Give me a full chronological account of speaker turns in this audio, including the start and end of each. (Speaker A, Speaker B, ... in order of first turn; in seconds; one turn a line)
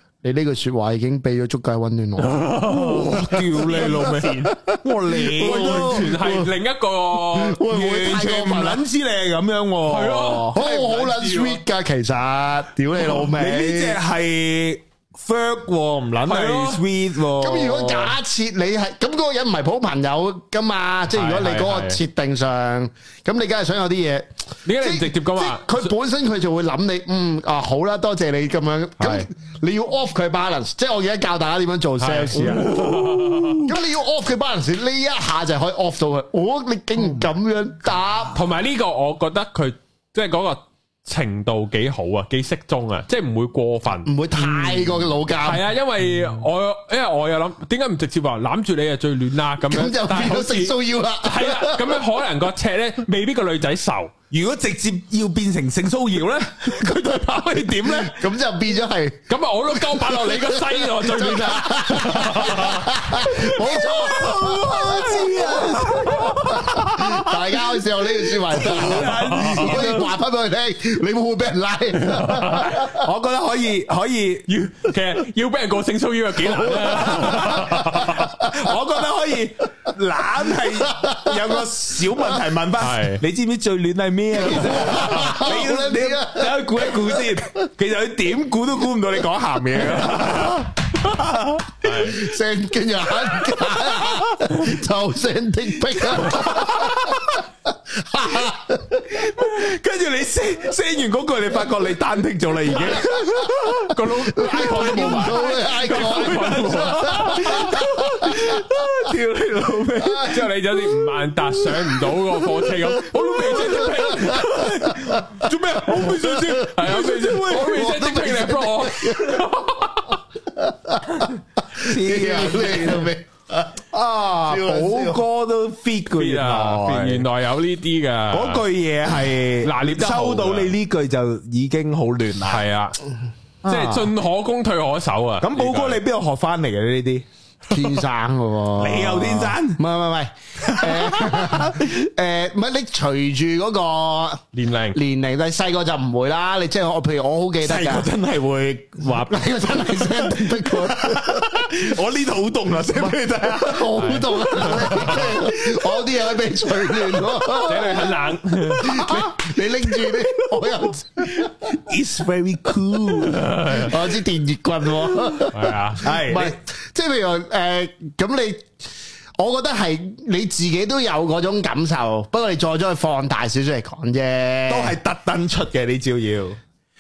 Speaker A: 0.2-2.6
Speaker B: 2.2-4.2
Speaker C: 2.6-6.2
Speaker A: 3.3-6.5
Speaker B: 5.3-7.6
Speaker A: 7.2-8.8
Speaker C: 7.7-10.6
Speaker B: 9.9-11.6
Speaker A: 10.5-14.0
Speaker C: 13.2-18.1
Speaker B: 16.2-16.8
Speaker A: 17.4-32.8
Speaker B: 21.1-22.0
Speaker B: 24.6-25.9
Speaker B: 29.0-29.3
Speaker B: 32.0-33.7
Speaker C: 32.3-33.7
Speaker A: 33.6-38.4
Speaker C: 37.0-37.3
Speaker B: 38.3-54.1
Speaker A: 44.0-45.6
Speaker A: 49.7-52.0
Speaker C: 54.3-58.2
Speaker A: 57.8-59.2
Speaker B: 59.3-63.9
Speaker A: 59.7-73.0
Speaker C: 63.3-70.1
Speaker B: 66.0-66.3
Speaker B: 68.6-70.0
Speaker B: 72.0-72.8
Speaker C: 72.7-74.6
Speaker B: 74.5-78.3
Speaker A: 76.5-78.7
Speaker C: 77.0-92.0
Speaker A: 80.6-81.6
Speaker B: 82.8-83.2
Speaker A: 84.4-87.4
Speaker B: 84.7-85.2
Speaker B: 91.8-92.3
Speaker A: 92.0-97.4
Speaker C: 93.3-94.4
Speaker C: 96.1-97.4
Speaker A: 97.9-99.3
Speaker C: 99.1-110.9
Speaker B: 102.7-103.1
Speaker B: 103.7-108.3
Speaker A: 104.3-108.7
Speaker A: 110.0-110.5
Speaker B: 110.2-115.0
Speaker C: 113.1-118.5
Speaker A: 113.4-115.5
Speaker A: 116.0-116.5
Speaker B: 116.0-120.2
Speaker A: 118.2-119.5
Speaker A: 120.6-125.2
Speaker C: 121.2-123.1
Speaker C: 124.4-127.2
Speaker B: 126.2-128.6
Speaker C: 128.3-132.6
Speaker B: 129.6-130.7
Speaker B: 132.5-133.0
Speaker C: 133.6-134.1
Speaker B: 133.6-136.0
Speaker C: 135.4-137.2
Speaker A: 137.7-148.1
Speaker C: 138.8-139.8
Speaker C: 140.6-141.8
Speaker B: 144.5-145.0
Speaker C: 147.6-155.6
Speaker A: 149.1-151.8
Speaker A: 152.9-158.2
Speaker B: 154.0-155.2
Speaker C: 156.9-157.3
Speaker B: 157.6-159.1
Speaker C: 158.7-160.5
Speaker A: 158.8-161.8
Speaker C: 161.7-164.0
Speaker B: 163.1-163.9
Speaker A: 163.7-168.7
Speaker B: 165.5-166.0
Speaker C: 166.0-166.6
Speaker A: 169.4-174.9
Speaker C: 174.7-176.6